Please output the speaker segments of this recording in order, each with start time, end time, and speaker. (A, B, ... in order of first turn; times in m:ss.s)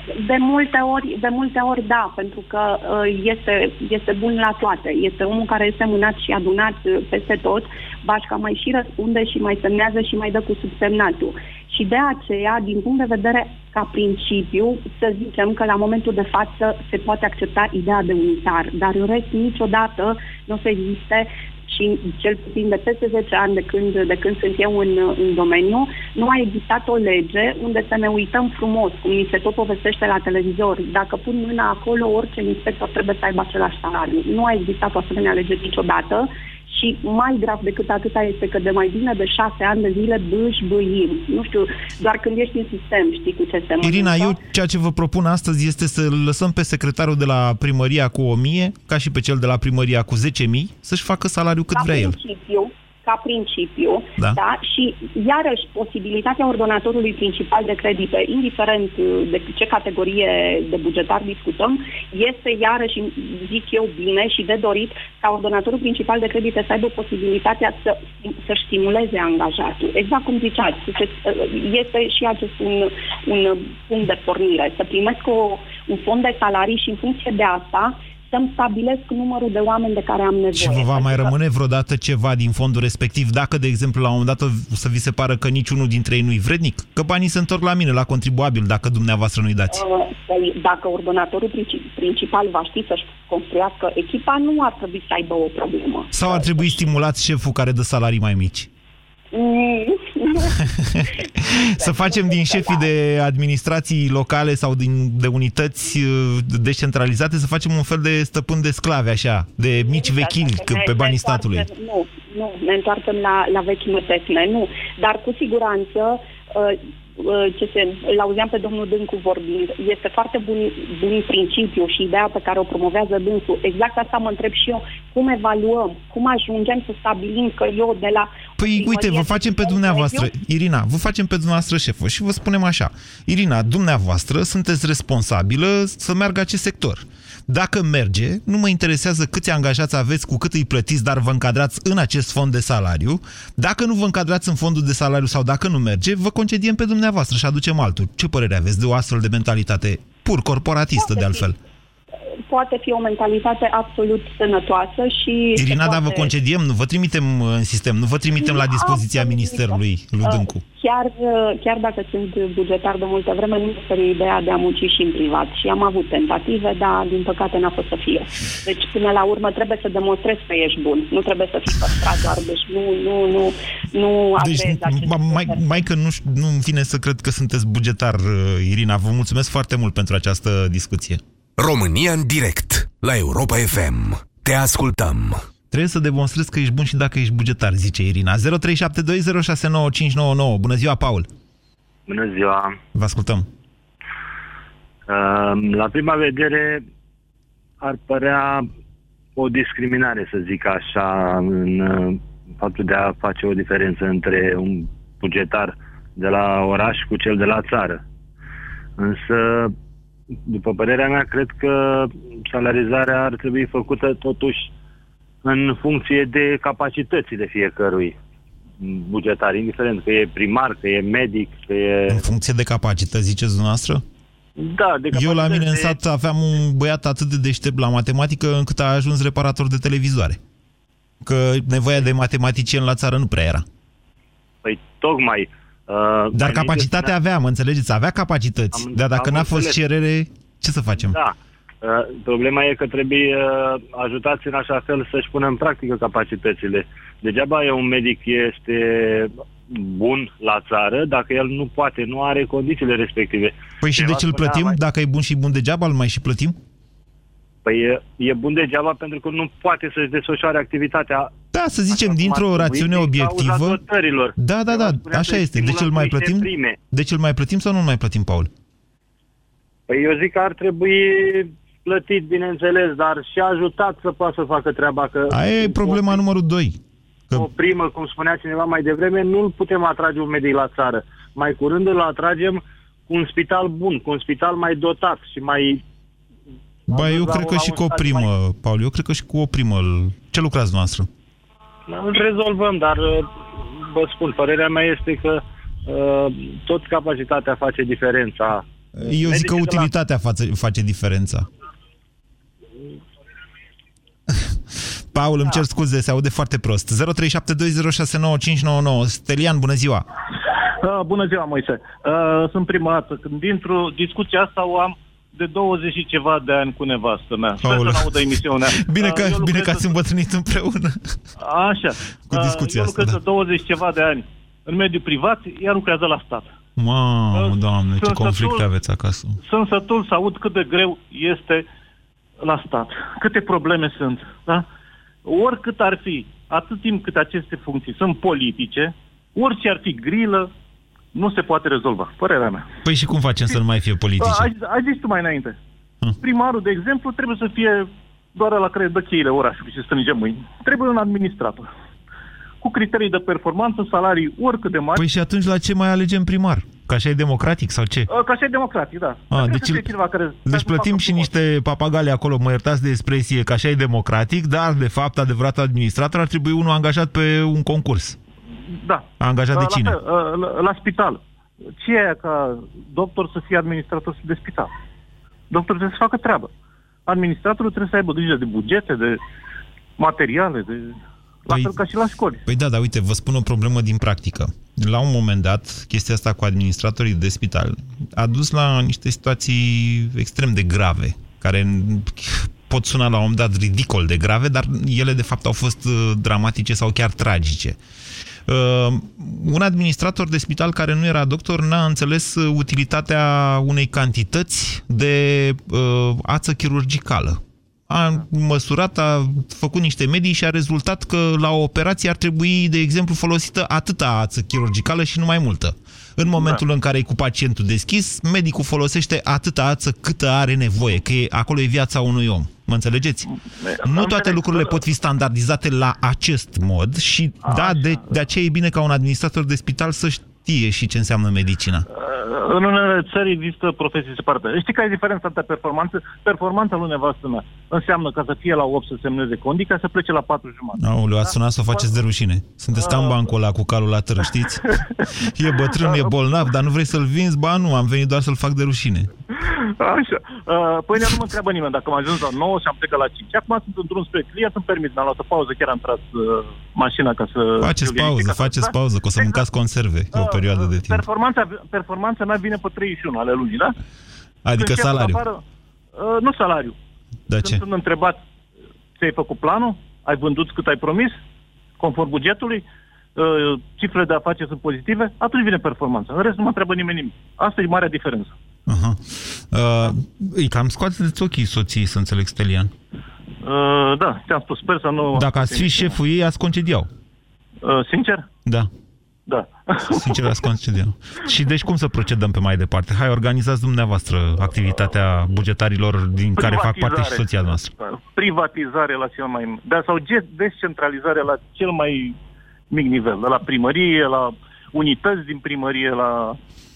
0:00.1-0:44.4 A
0:43.8-0:52.2 B
0:51.7-1:21.3 A
1:20.5-1:29.8 B
1:29.7-1:36.9 A
1:36.1-1:38.7 B
1:39.3-1:40.6 A
1:40.7-1:51.7 B
1:41.6-1:42.9 A
1:49.9-2:10.3 A
2:08.6-2:31.6 B
2:31.0-2:31.5 A
2:32.5-2:36.3 A
2:35.5-2:40.6 B
2:38.4-2:55.6 A
2:54.4-3:01.2 B
3:01.6-3:05.4 C
3:05.7-3:11.3 B
3:12.1-3:12.8 D
3:12.9-3:13.5 B
3:15.1-3:16.8 D
3:17.8-3:18.7 D
3:19.4-3:28.0 D
3:29.0-3:29.7 D
3:30.4-3:34.7 D
3:35.4-3:38.2 D
3:38.8-3:42.2 D
3:42.1-3:44.0 B
3:44.6-3:46.0 D
3:45.1-3:50.4 B
3:51.2-3:53.6 B
3:54.6-3:57.1 D
3:56.3-4:01.2 B
3:58.7-3:59.8 D
4:01.0-4:14.8 D
4:13.8-4:16.6 B
4:17.6-4:21.3 D
4:21.5-4:23.8 B
4:21.9-4:26.8 D
4:24.4-4:28.5 B
4:29.9-4:36.2 D
4:35.3-4:36.8 B
4:37.3-4:45.8 D
4:46.9-4:48.3 D
4:46.9-4:51.1 B
4:51.9-4:59.9 D
4:59.0-5:01.4 B
5:04.3-5:10.0 B
5:10.8-5:19.9 E
5:17.6-5:21.2 B
5:21.4-5:26.5 E
5:22.3-5:23.2 B
5:26.8-5:29.4 B
5:27.3-5:28.6 E
5:29.4-5:31.6 E
5:32.4-5:34.6 E
5:35.2-5:40.5 E
5:41.1-5:42.6 E
5:42.8-5:44.5 B
5:44.2-5:45.6 E
5:46.2-5:51.6 E
5:52.6-5:55.0 E
5:55.0-5:58.1 B
5:58.1-6:01.3 E
5:59.3-5:59.9 B
6:00.4-6:08.2 B
6:08.8-6:11.2 E
6:09.2-6:10.0 B
6:11.8-6:14.7 E
6:15.5-6:16.5 E
6:17.1-6:19.2 E
6:20.0-6:20.9 E
6:21.4-6:22.4 E
6:21.5-6:21.8 B
6:22.4-6:37.8 B
6:38.5-7:03.3 B
7:03.6-7:04.8 E
7:03.8-7:11.8 B
7:07.4-7:08.0 E
7:12.0-7:21.8 E
7:20.8-7:24.6 B
7:22.8-7:23.2 E
7:25.3-7:29.1 B
7:29.8-7:39.4 E
7:37.6-7:41.0 B
7:40.1-7:43.7 E
7:44.4-7:45.2 B
7:44.5-7:45.4 E
7:46.0-7:46.7 E
7:47.3-7:47.6 B
7:47.3-7:48.2 E
7:49.0-7:51.2 E
7:51.8-7:52.6 E
7:53.2-7:58.3 E
7:58.7-8:02.7 B
8:03.4-8:05.9 E
8:05.1-8:06.9 B
8:07.6-8:08.2 E
8:08.4-8:08.7 B
8:09.3-8:10.2 E
8:09.8-8:17.7 B
8:16.4-8:22.1 E
8:22.7-8:26.4 E